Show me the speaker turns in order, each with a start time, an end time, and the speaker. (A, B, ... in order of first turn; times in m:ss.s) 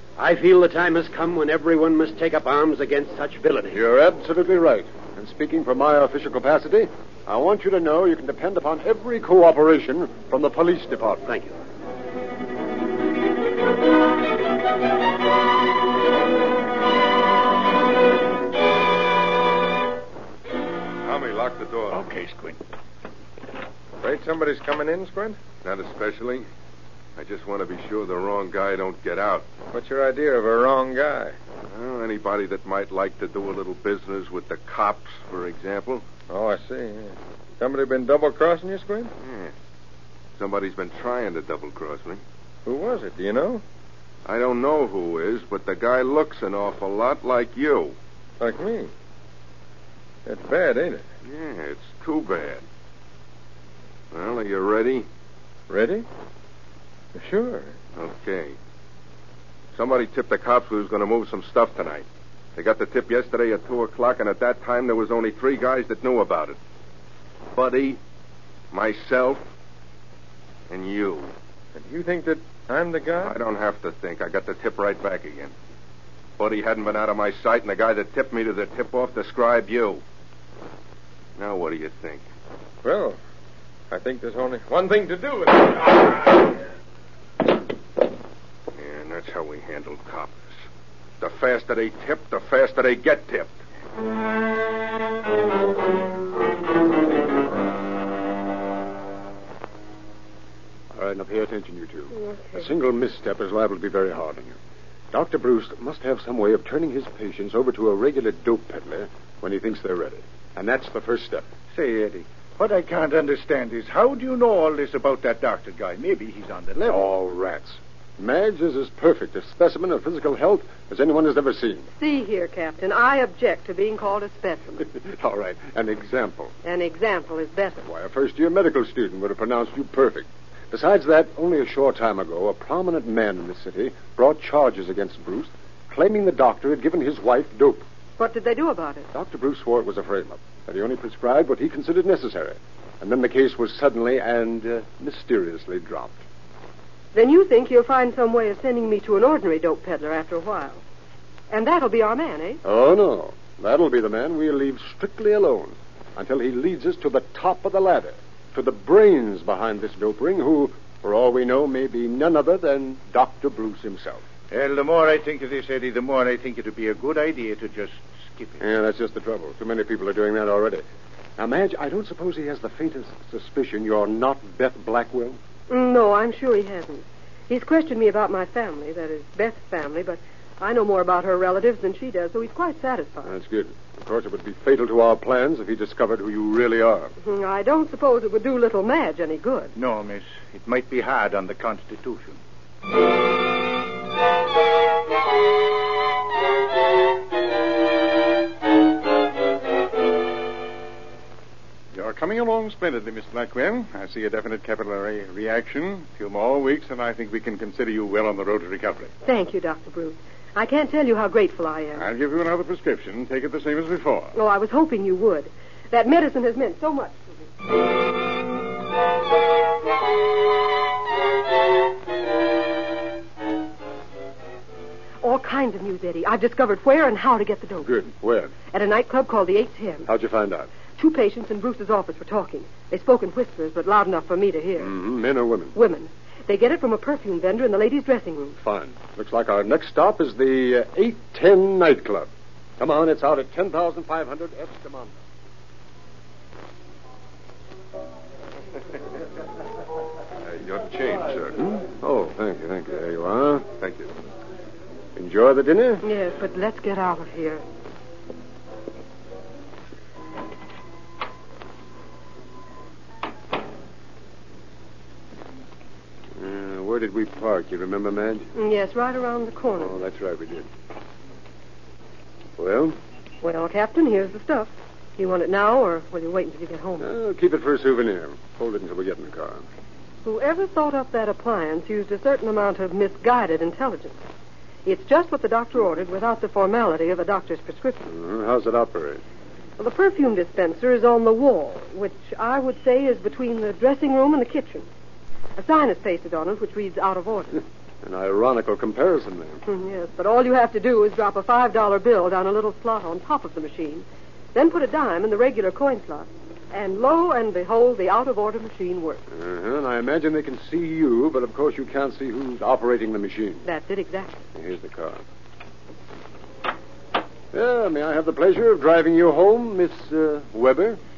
0:00.2-0:03.8 A
0:03.7-0:11.3 B
0:11.3-0:11.5 A
0:21.0-0:22.1 C
0:22.2-0:22.6 D
0:24.0-0:25.4 E
0:25.6-0:26.5 C
0:27.2-0:29.5 C
0:29.7-0:31.4 E
0:31.7-0:36.1 C
0:36.3-0:39.1 E
0:39.2-0:39.5 C
0:40.4-0:42.2 C
0:42.7-0:43.6 E
0:44.3-0:48.0 C
0:48.4-0:48.9 E
0:50.3-0:51.0 E
0:51.2-0:52.6 C
0:54.1-0:55.1 C
0:55.7-0:56.1 E
0:57.2-0:57.7 E
0:58.0-0:58.6 C
0:59.7-1:06.6 C
1:07.5-1:08.0 C
1:08.7-1:09.5 C
1:10.7-1:11.3 C
1:11.8-1:13.4 E
1:13.2-1:15.5 C
1:16.4-1:20.0 C
1:21.4-1:22.2 C
1:22.8-1:23.2 E
1:23.9-1:26.1 E
1:28.8-1:30.5 C
1:31.2-1:33.6 C
1:40.9-1:44.6 B
1:42.2-1:42.7 F
1:45.1-1:51.4 B
1:51.7-1:57.1 D
1:56.9-2:01.9 B
2:02.0-2:04.8 F
2:04.8-2:06.5 B
2:06.6-2:07.8 F
2:07.8-2:17.8 B
2:18.2-2:19.1 F
2:19.1-2:26.2 B
2:27.1-2:30.8 F
2:31.5-2:32.6 F
2:32.6-2:44.2 B
2:44.5-2:48.6 D
2:48.6-2:50.8 B
2:51.4-2:55.4 B
2:55.7-3:03.3 F
3:03.2-3:07.1 B
3:07.2-3:09.7 F
3:09.8-3:12.4 D
3:21.9-3:29.1 G
3:29.2-3:32.1 F
3:32.0-3:34.3 G
3:34.3-3:37.3 F
3:45.2-3:47.9 F
3:47.8-3:48.5 B
3:48.7-3:50.1 F
3:50.1-3:50.7 B
3:51.0-3:55.0 F
3:54.8-3:55.8 B
3:55.8-3:58.6 F
3:58.6-4:05.2 B
4:10.4-4:11.8 C
4:11.8-4:13.7 B
4:13.8-4:14.1 C
4:15.2-4:16.0 B
4:16.0-4:17.6 F
4:26.4-4:28.5 B
4:28.6-4:30.0 F
4:29.8-4:30.7 B
4:32.6-4:33.0 B
4:33.4-4:37.1 F
4:37.0-4:39.6 B
4:40.2-4:44.2 F
4:44.9-4:48.1 F
4:48.0-4:49.2 B
4:49.8-4:54.9 F
4:55.6-4:57.6 F
4:58.0-4:59.6 B
4:59.7-5:09.2 F
5:09.3-5:13.7 B
5:13.6-5:14.4 F
5:14.5-5:15.2 B
5:17.5-5:21.0 B